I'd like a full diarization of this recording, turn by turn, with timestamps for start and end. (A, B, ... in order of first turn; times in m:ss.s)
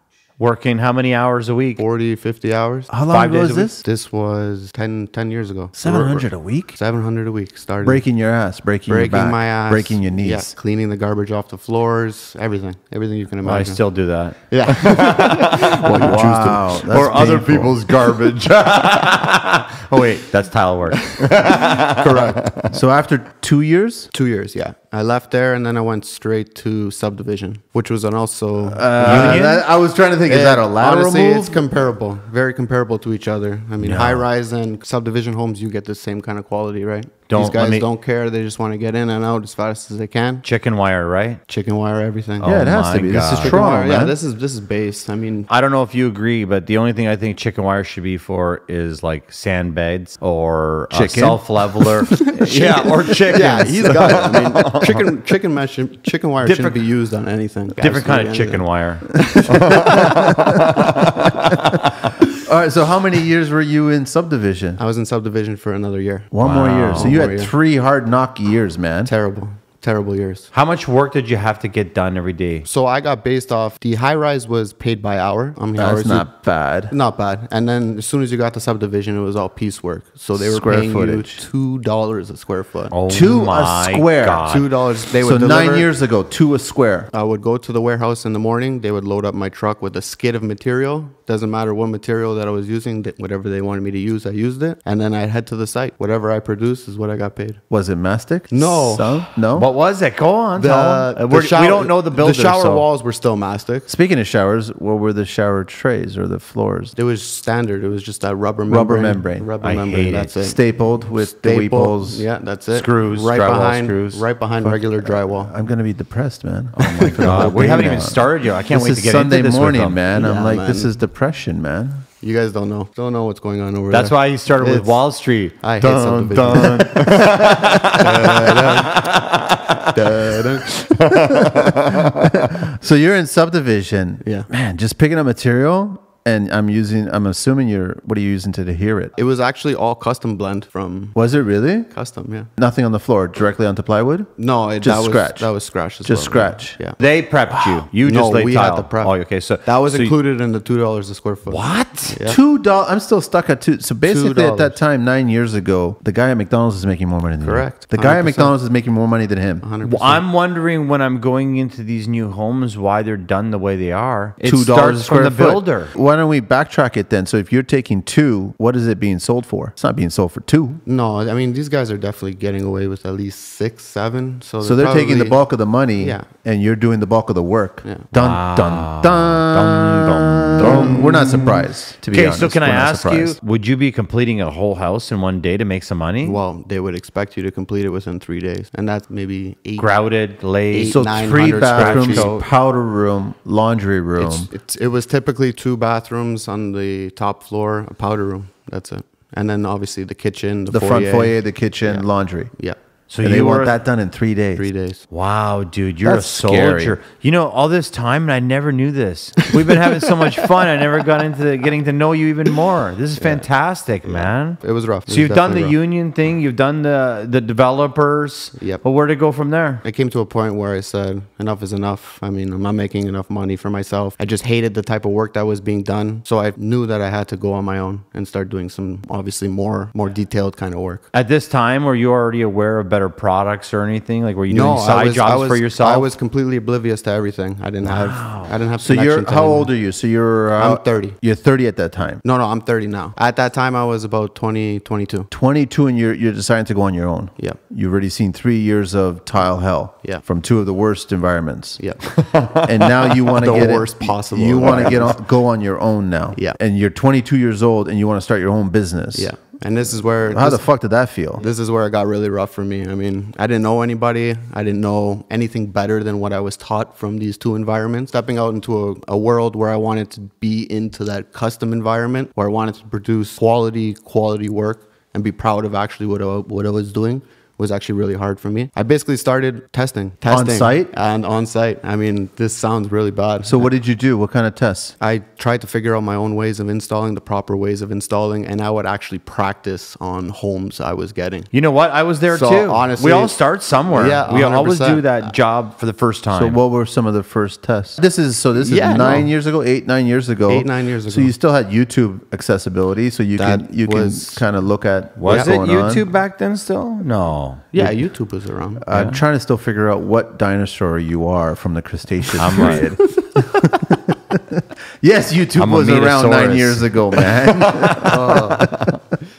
0:00.4-0:01.8 A
0:01.8-0:02.9 B
0:02.9-0:03.8 C
0:03.1-0:03.7 A
0:03.8-0:08.0 B
0:05.8-0:06.8 C
0:07.8-0:10.5 C
0:08.9-0:13.8 B
0:13.4-0:22.8 A
0:14.5-0:16.8 B
0:16.0-0:18.2 C
0:21.1-0:22.3 B
0:22.0-0:24.1 C
0:24.1-0:29.6 B
0:28.7-0:31.7 C
0:29.0-0:29.6 A
0:30.2-0:40.4 B
0:33.8-0:34.2 C
0:37.3-0:37.8 A
0:40.4-0:41.4 A
0:41.5-0:42.5 B
0:42.4-0:43.6 A
0:42.4-0:44.1 C
0:43.3-0:45.5 B
0:45.5-0:55.0 A
0:50.9-0:52.0 C
0:52.2-1:00.4 B
0:56.4-0:56.8 A
0:57.8-1:02.2 A
0:59.8-1:01.3 C
1:02.3-1:04.8 C
1:04.8-1:07.5 B
1:06.3-1:09.1 C
1:06.4-1:07.2 A
1:09.0-1:10.5 B
1:10.5-1:12.6 A
1:12.6-1:16.3 B
1:15.8-1:16.9 C
1:16.9-1:22.9 B
1:20.3-1:21.4 C
1:22.9-1:24.7 A
1:23.1-1:24.5 C
1:24.4-1:25.9 B
1:25.2-1:27.1 C
1:27.1-1:37.6 B
1:37.7-1:39.7 C
1:38.5-1:39.3 B
1:39.5-1:42.8 A
1:40.6-1:43.9 B
1:43.9-1:47.0 C
1:47.0-1:50.6 B
1:48.7-1:49.5 C
1:49.6-1:50.3 A
1:50.4-1:52.2 C
1:51.2-1:55.5 B
1:52.7-1:54.2 A
1:54.6-2:02.0 C
1:56.8-1:58.0 B
1:56.8-2:00.0 A
2:00.1-2:00.9 B
2:02.2-2:05.0 B
2:03.9-2:09.9 A
2:05.6-2:09.1 B
2:07.4-2:07.8 C
2:09.9-2:11.4 B
2:10.7-2:12.3 A
2:11.1-2:19.1 C
2:19.2-2:21.2 B
2:21.1-2:21.9 C
2:21.9-2:22.5 B
2:22.6-2:25.5 C
2:24.4-2:27.0 B
2:26.0-2:26.8 C
2:27.0-2:30.1 A
2:27.5-2:27.8 C
2:28.0-2:32.4 B
2:31.5-2:32.2 A
2:32.2-2:39.6 C
2:34.0-2:34.8 B
2:37.4-2:38.5 B
2:39.6-2:40.2 B
2:39.8-2:45.9 A
2:44.4-2:50.8 C
2:50.8-2:55.4 B
2:54.6-3:03.4 C
2:56.0-2:56.3 B
2:58.1-3:06.4 A
3:00.6-3:01.5 B
3:06.2-3:09.9 B
3:09.8-3:12.4 A
3:10.7-3:12.3 B
3:10.9-3:14.5 C
3:14.2-3:22.8 B
3:20.7-3:22.5 C
3:23.1-3:23.8 A
3:23.2-3:24.6 C
3:24.6-3:25.0 B
3:25.1-3:39.8 A
3:26.0-3:27.0 C
3:34.0-3:35.8 B
3:38.6-3:38.8 B
3:39.8-3:51.0 B
3:51.1-3:56.1 A
3:54.5-3:59.7 B
3:57.8-3:58.5 A
3:58.8-4:02.2 C
4:00.6-4:01.2 B
4:02.2-4:05.3 B
4:05.3-4:11.8 C
4:11.8-4:12.6 B
4:12.1-4:13.1 A
4:12.6-4:19.3 C
4:13.3-4:15.2 B
4:19.1-4:20.6 B
4:20.3-4:21.4 C
4:21.4-4:43.7 B
4:40.3-4:40.9 C
4:43.4-4:44.9 C
4:45.0-4:51.5 B
4:51.5-4:56.6 A
4:52.3-4:53.4 B
4:53.9-4:55.3 B
4:56.3-5:06.0 C
4:58.6-4:59.3 B
5:00.5-5:01.3 B
5:03.4-5:04.4 B
5:05.2-5:07.7 A
5:05.3-5:05.5 B
5:07.7-5:08.8 B
5:08.8-5:19.0 C
5:08.9-5:09.2 A
5:12.4-5:13.0 A
5:15.6-5:18.9 A
5:18.0-5:18.7 B